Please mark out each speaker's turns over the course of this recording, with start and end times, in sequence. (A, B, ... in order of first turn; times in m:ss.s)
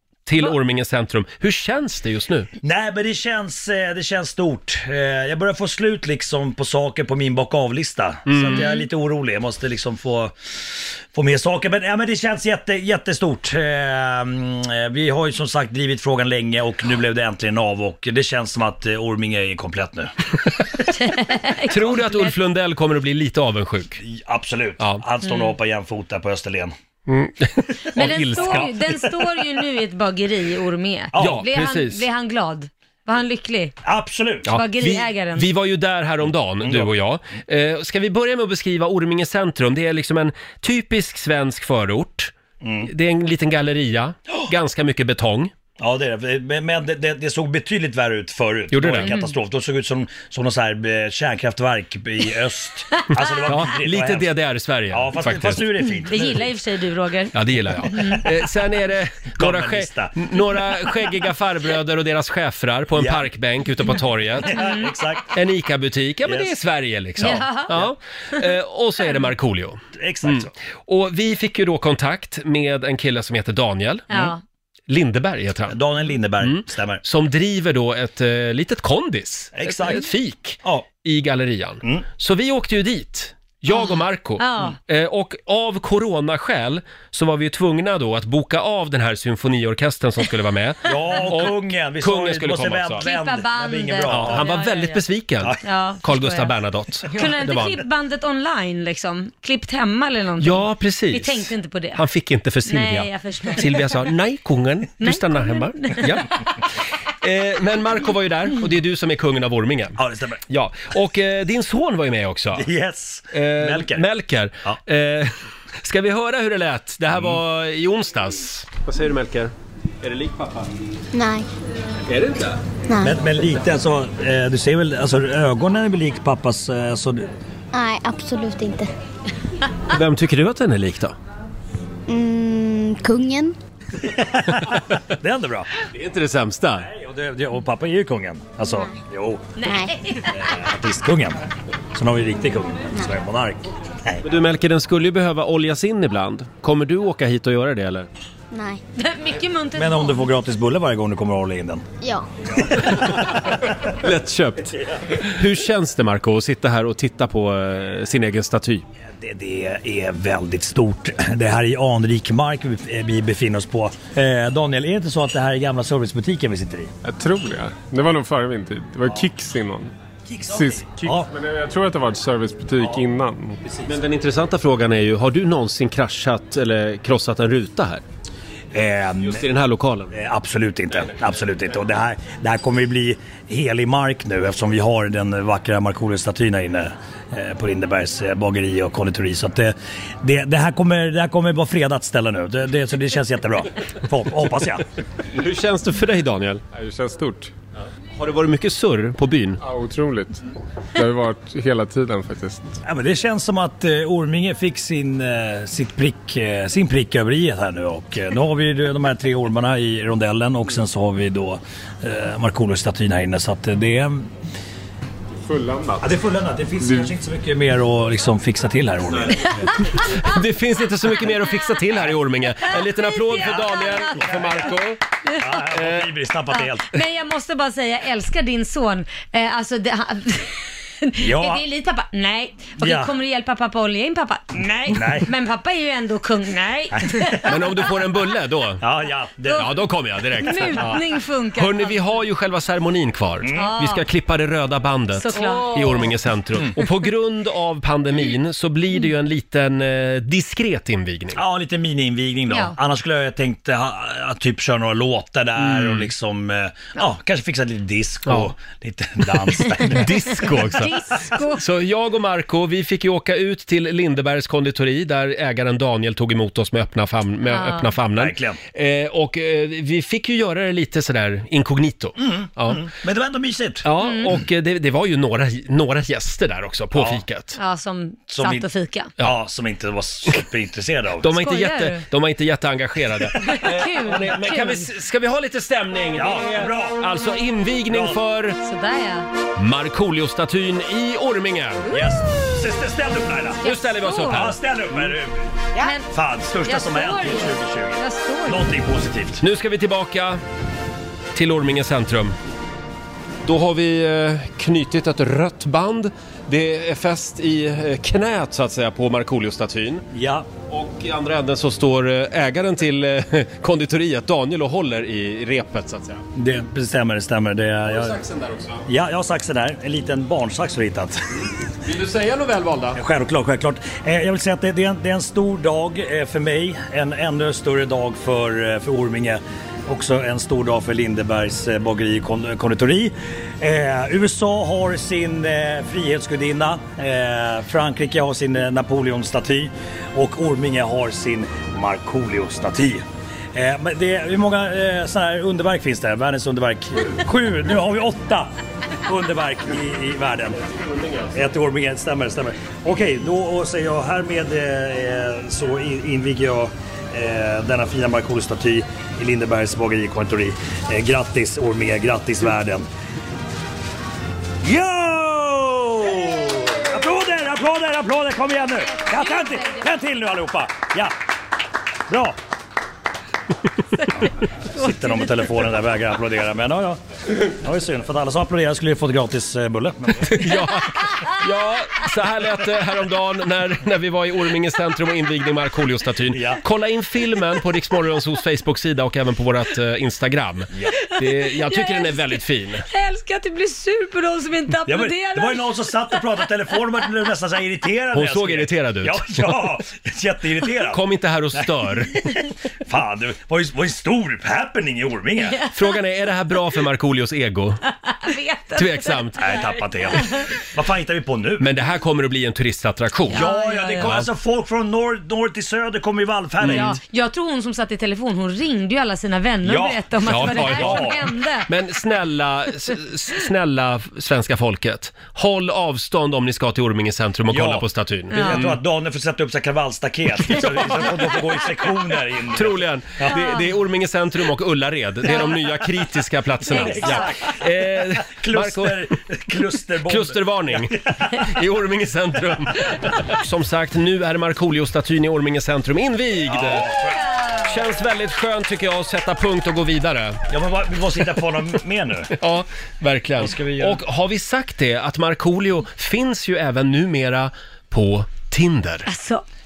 0:00.3-0:02.5 A
0:02.6-0:10.4 B
0:08.3-0:08.7 A
0:08.5-0:08.8 C
0:11.1-0:20.1 B
0:20.9-0:22.4 C
0:21.7-0:24.0 A
0:24.0-0:26.7 B
0:24.8-0:25.0 A
0:25.2-0:25.5 C
0:27.1-0:28.7 A
0:28.0-0:29.1 B
0:28.0-0:33.8 C
0:31.1-0:31.4 B
0:31.2-0:32.0 A
0:33.8-0:34.5 B
0:34.4-0:42.3 A
0:34.5-0:35.5 C
0:36.6-0:36.9 B
0:42.6-0:42.9 B
0:42.8-0:45.5 A
0:45.8-0:54.3 B
0:48.7-0:49.1 A
0:49.0-0:49.4 C
0:53.5-0:55.7 A
0:54.9-0:56.5 B
0:55.8-0:58.2 C
0:57.3-1:04.6 A
0:59.4-1:00.2 B
1:03.0-1:03.3 B
1:04.4-1:05.4 B
1:04.6-1:04.9 C
1:05.3-1:14.3 A
1:06.2-1:06.5 B
1:07.2-1:07.8 C
1:10.0-1:10.5 B
1:14.1-1:14.4 C
1:14.9-1:15.8 A
1:15.7-1:17.0 B
1:16.4-1:33.1 A
1:19.6-1:20.1 B
1:23.7-1:24.8 C
1:30.8-1:34.5 B
1:33.0-1:35.0 C
1:34.1-1:37.8 A
1:35.6-1:36.5 C
1:37.1-1:42.0 C
1:40.4-1:46.4 A
1:42.7-1:43.9 C
1:45.0-1:46.2 C
1:47.2-1:52.7 A
1:50.0-1:50.4 B
1:52.5-1:54.1 B
1:53.3-2:00.7 A
2:01.1-2:01.5 D
2:02.1-2:02.6 A
2:02.9-2:03.2 D
2:03.0-2:07.3 B
2:07.7-2:08.9 D
2:09.9-2:11.2 A
2:12.1-2:13.5 D
2:14.0-2:15.7 B
2:15.9-2:16.9 A
2:16.8-2:19.5 B
2:18.7-2:18.9 D
2:19.6-2:20.6 C
2:19.6-2:19.9 D
2:20.3-2:21.4 B
2:21.9-2:24.2 B
2:24.2-2:28.1 A
2:28.5-2:28.8 D
2:29.0-2:30.3 C
2:29.8-2:31.8 B
2:32.0-2:32.3 D
2:32.5-2:33.8 B
2:33.9-2:38.8 A
2:34.8-2:35.2 B
2:39.2-2:46.9 B
2:47.0-2:49.9 E
2:50.3-2:51.3 B
2:50.5-2:53.6 E
2:53.8-2:58.0 A
2:58.7-2:59.4 B
2:59.2-3:00.1 A
3:00.1-3:14.8 B
3:15.3-3:16.6 A
3:16.7-3:17.5 E
3:18.2-3:19.6 A
3:19.6-3:20.4 E
3:21.0-3:22.8 E
3:22.8-3:34.3 B
3:35.5-3:36.1 E
3:36.0-3:40.0 B
3:36.8-3:37.1 E
3:39.9-3:45.0 A
3:42.7-3:44.6 C
3:43.4-3:44.7 B
3:45.3-3:45.6 C
3:45.4-3:47.0 B
3:45.7-3:46.1 A
3:46.5-3:57.6 C
3:51.2-3:51.6 B
3:52.8-3:53.1 B
3:54.9-3:55.3 B
3:57.0-3:57.5 B
3:57.5-3:58.8 A
3:58.8-3:59.8 B
3:59.5-4:01.0 A
4:00.4-4:02.0 C
4:01.6-4:11.4 A
4:03.4-4:03.7 B
4:03.5-4:04.0 C
4:05.2-4:06.1 C
4:11.4-4:20.4 B
4:12.5-4:12.8 C
4:15.6-4:16.1 A
4:18.3-4:18.5 A
4:19.8-4:32.8 A
4:20.6-4:21.6 C
4:27.5-4:27.9 C
4:28.2-4:28.6 B
4:32.2-4:33.8 B
4:33.8-4:37.6 A
4:34.0-4:34.3 C
4:36.9-4:37.2 B
4:37.6-4:39.1 C
4:38.3-4:38.7 B
4:39.2-4:41.3 B
4:41.2-4:48.6 A
4:41.4-4:42.0 C
4:43.4-4:44.9 C
4:46.2-4:47.0 B
4:47.9-4:48.2 B
4:48.6-4:49.3 C
4:49.6-4:51.9 A
4:51.9-4:53.6 B
4:53.6-4:54.6 C
4:53.6-4:55.1 A
4:54.2-4:55.5 B
4:55.8-4:56.1 C
4:56.1-4:59.4 B
4:56.6-4:58.7 C
4:59.4-5:00.4 A
5:01.4-5:02.4 A
5:03.4-5:10.0 A
5:10.1-5:10.5 B
5:10.7-5:16.2 A
5:16.4-5:18.2 B
5:17.9-5:18.9 A
5:18.9-5:21.2 B
5:21.8-5:23.0 A
5:23.0-5:43.0 B
5:43.5-5:48.5 B
5:49.0-5:50.6 B
5:50.7-5:51.3 A
5:51.3-6:02.9 B
6:04.6-6:11.1 B
6:08.8-6:09.9 C
6:12.1-6:12.4 B
6:14.2-6:20.5 B
6:14.8-6:15.6 C
6:20.3-6:32.9 A
6:26.3-6:26.6 B
6:31.6-6:36.2 C
6:34.9-6:41.0 B
6:38.1-6:39.6 A
6:40.9-6:42.2 A
6:41.6-6:45.6 B
6:45.7-6:47.8 A
6:48.0-6:50.4 C
6:48.8-6:49.4 A
6:49.4-6:51.7 B
6:51.6-6:53.4 A
6:53.3-6:54.1 C
6:53.3-6:57.0 B
6:54.0-6:54.3 A
6:56.6-6:56.9 A
6:56.6-7:01.7 C
6:59.6-7:01.3 B
7:00.2-7:01.1 A
7:01.7-7:08.8 A
7:07.5-7:13.4 B
7:08.3-7:08.7 C
7:10.5-7:11.1 A
7:12.5-7:19.1 A
7:13.3-7:13.6 C
7:15.3-7:15.8 C
7:16.6-7:17.4 C
7:16.7-7:21.5 B
7:20.0-7:26.9 A
7:26.5-7:27.6 B
7:27.6-7:30.4 A
7:30.5-7:32.4 B
7:32.4-7:39.1 A
7:33.4-7:34.0 B
7:39.1-7:39.4 C